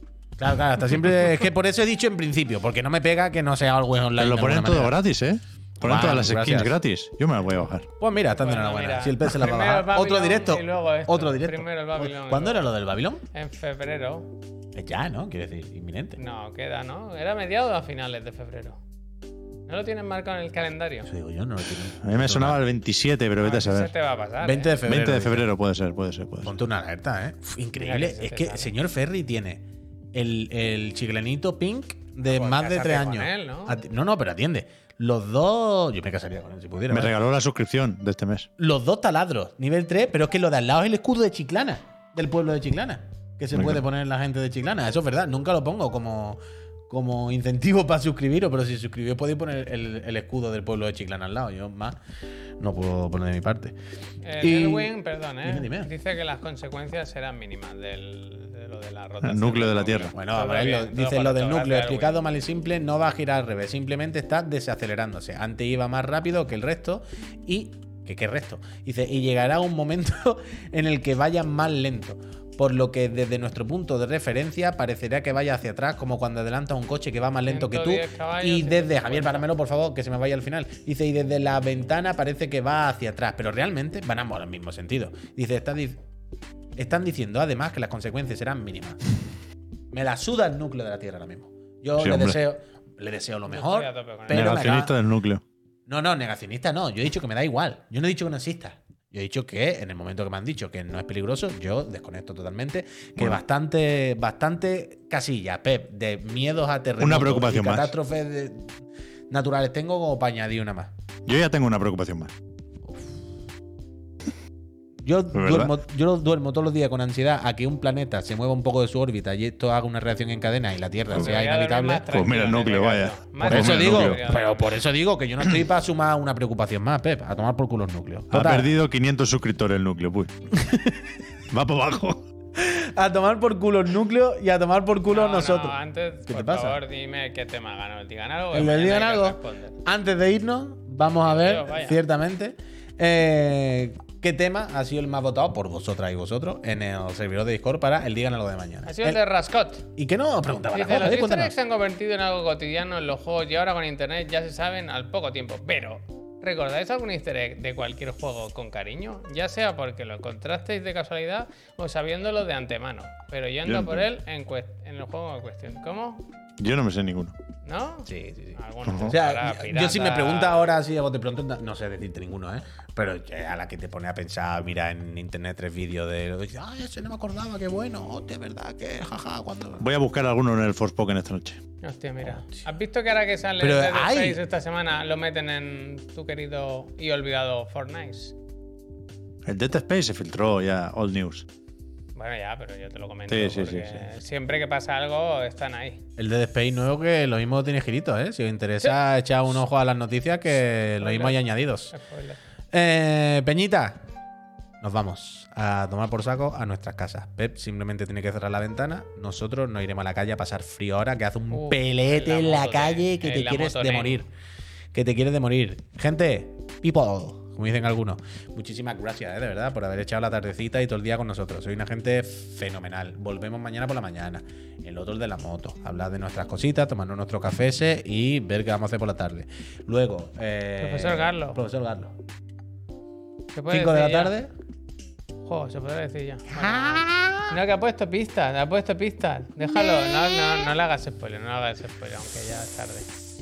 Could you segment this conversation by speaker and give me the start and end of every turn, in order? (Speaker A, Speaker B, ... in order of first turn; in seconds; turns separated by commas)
Speaker A: 0.4-5.0, Speaker B: 4.2-7.9, Speaker A: 5.8-6.8, Speaker A: 8.0-13.2, Speaker C: 8.3-12.7, Speaker C: 13.3-14.3, Speaker A: 14.7-16.2, Speaker C: 16.2-18.8, Speaker C: 19.7-21.1, Speaker A: 21.0-22.6, Speaker B: 22.0-23.9, Speaker C: 23.4-24.8, Speaker A: 24.4-25.5, Speaker B: 24.8-26.5, Speaker A: 26.4-37.1, Speaker C: 27.8-28.7, Speaker C: 32.2-33.8, Speaker B: 36.9-38.5, Speaker A: 38.6-52.0, Speaker B: 43.5-43.8, Speaker A: 52.6-53.7, Speaker C: 54.2-62.2, Speaker A: 54.4-55.9, Speaker B: 59.2-60.1, Speaker A: 60.1-86.0, Speaker C: 77.5-79.5, Speaker A: 86.8-89.0, Speaker A: 89.9-95.0, Speaker B: 92.0-92.3, Speaker C: 93.5-94.6, Speaker B: 94.3-95.4, Speaker A: 95.9-108.7, Speaker B: 107.0-107.9, Speaker A: 109.3-110.9, Speaker B: 111.2-112.3, Speaker A: 115.0-122.0, Speaker B: 115.3-115.8, Speaker C: 121.1-124.8, Speaker B: 122.1-124.2, Speaker A: 123.4-128.7, Speaker B: 128.3-130.3, Speaker A: 130.5-131.1, Speaker B: 131.5-132.2, Speaker A: 132.6-135.8, Speaker C: 135.1-139.8, Speaker A: 136.3-136.8, Speaker A: 138.5-149.2, Speaker C: 141.0-142.0, Speaker C: 148.8-149.8, Speaker A: 149.9-151.5, Speaker C: 150.7-166.3, Speaker B: 163.6-164.1, Speaker B: 166.6-167.3, Speaker C: 167.6-170.7, Speaker A: 168.1-179.8, Speaker B: 168.8-169.1, Speaker B: 179.8-181.6, Speaker C: 181.8-188.3, Speaker A: 182.2-182.6, Speaker A: 183.6-184.4, Speaker B: 189.4-191.5, Speaker C: 192.1-196.0, Speaker B: 193.3-194.1, Speaker A: 196.2-201.9, Speaker C: 201.0-201.4, Speaker C: 201.9-202.4, Speaker A: 202.7-204.0, Speaker A: 204.8-214.3, Speaker C: 211.5-214.2, Speaker A: 214.9-232.1, Speaker C: 230.8-231.6, Speaker C: 233.5-234.3, Speaker A: 233.7-234.5, Speaker C: 235.4-243.1, Speaker A: 236.5-237.5, Speaker A: 239.8-240.5